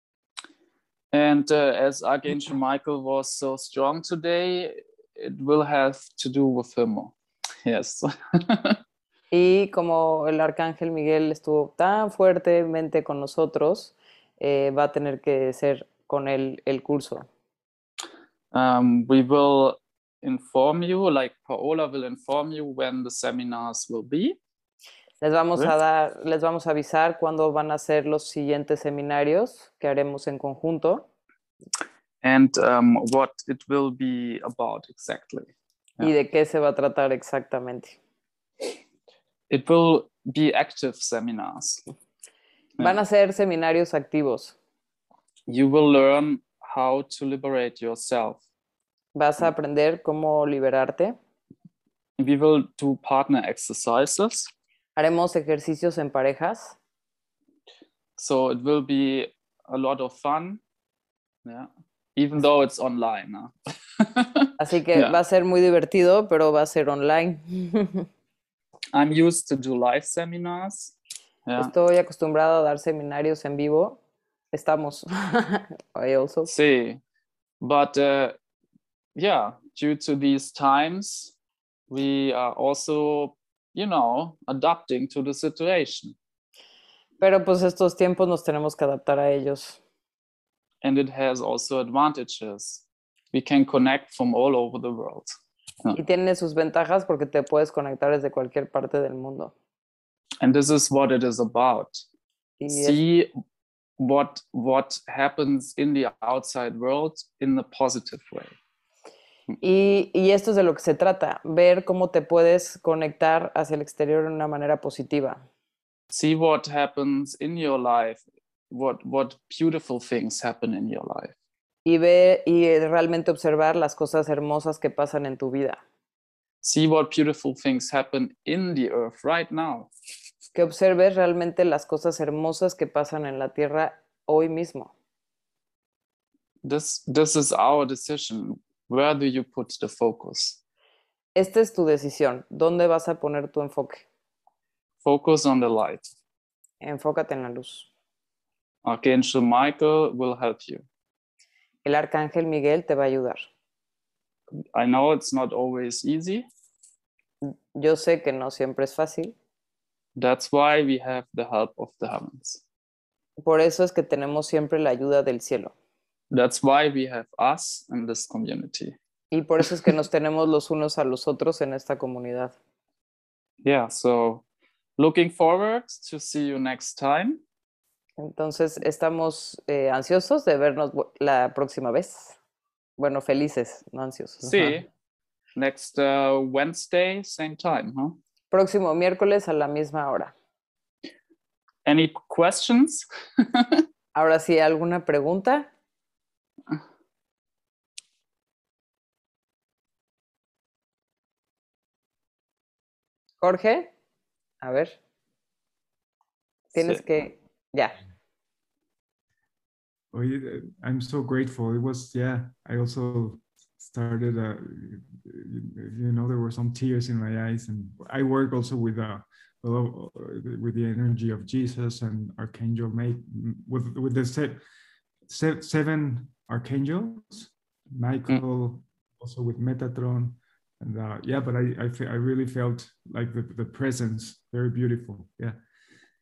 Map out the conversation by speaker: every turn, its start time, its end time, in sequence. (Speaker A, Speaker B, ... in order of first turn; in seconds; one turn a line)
Speaker A: 1.1-8.8
Speaker B: 9.3-17.3
Speaker A: 18.5-24.4
Speaker B: 25.2-31.1
Speaker A: 32.2-36.1
Speaker B: 36.0-38.0
Speaker A: 39.5-41.8
Speaker B: 42.8-44.5
Speaker A: 45.5-48.4
Speaker B: 49.1-51.1
Speaker A: 52.2-54.5
Speaker B: 55.0-56.8
Speaker A: 58.2-60.6
Speaker A: 61.4-65.2
Speaker B: 64.6-68.1
Speaker A: 68.9-70.9
Speaker A: 71.5-71.7
Speaker B: 71.6-74.0
Speaker B: 74.5-76.5
Speaker A: 76.5-77.0
Speaker A: 77.6-78.3
Speaker A: 79.2-81.3
Speaker A: 81.9-86.2
Speaker B: 87.2-89.8
Speaker A: 90.8-96.0
Speaker B: 95.9-99.5
Speaker A: 100.4-102.0
Speaker B: 102.6-103.0
Speaker A: 102.7-103.3
Speaker A: 104.0-108.5
Speaker B: 109.6-115.4
Speaker A: 116.1-118.2
Speaker A: 118.7-121.3
Speaker B: 121.8-125.8
Speaker A: 126.6-129.9
Speaker B: 130.5-134.9
Speaker A: 136.6-140.6
Speaker B: 141.3-144.0
Speaker A: 145.0-146.1
Speaker B: 146.8-147.9
Speaker A: 148.8-150.8
Speaker B: 151.8-153.4
Speaker A: 154.5-156.4
Speaker B: 157.4-159.3
Speaker A: 160.2-162.6
Speaker B: 163.4-165.7
Speaker A: 166.3-168.9
Speaker B: 169.3-172.6
Speaker A: 173.6-174.4
Speaker A: 175.0-177.4
Speaker B: 178.2-182.4
Speaker B: 183.0-184.8
Speaker A: 184.4-184.8
Speaker A: 185.6-188.2
Speaker B: 188.5-190.3
Speaker A: 191.8-193.8
Speaker B: 194.1-195.7
Speaker B: 203.4-203.9
Speaker B: 204.6-204.9
Speaker B: 206.7-208.0
Speaker A: 206.8-207.0
Speaker C: 210.1-224.6
Speaker C: 225.3-235.6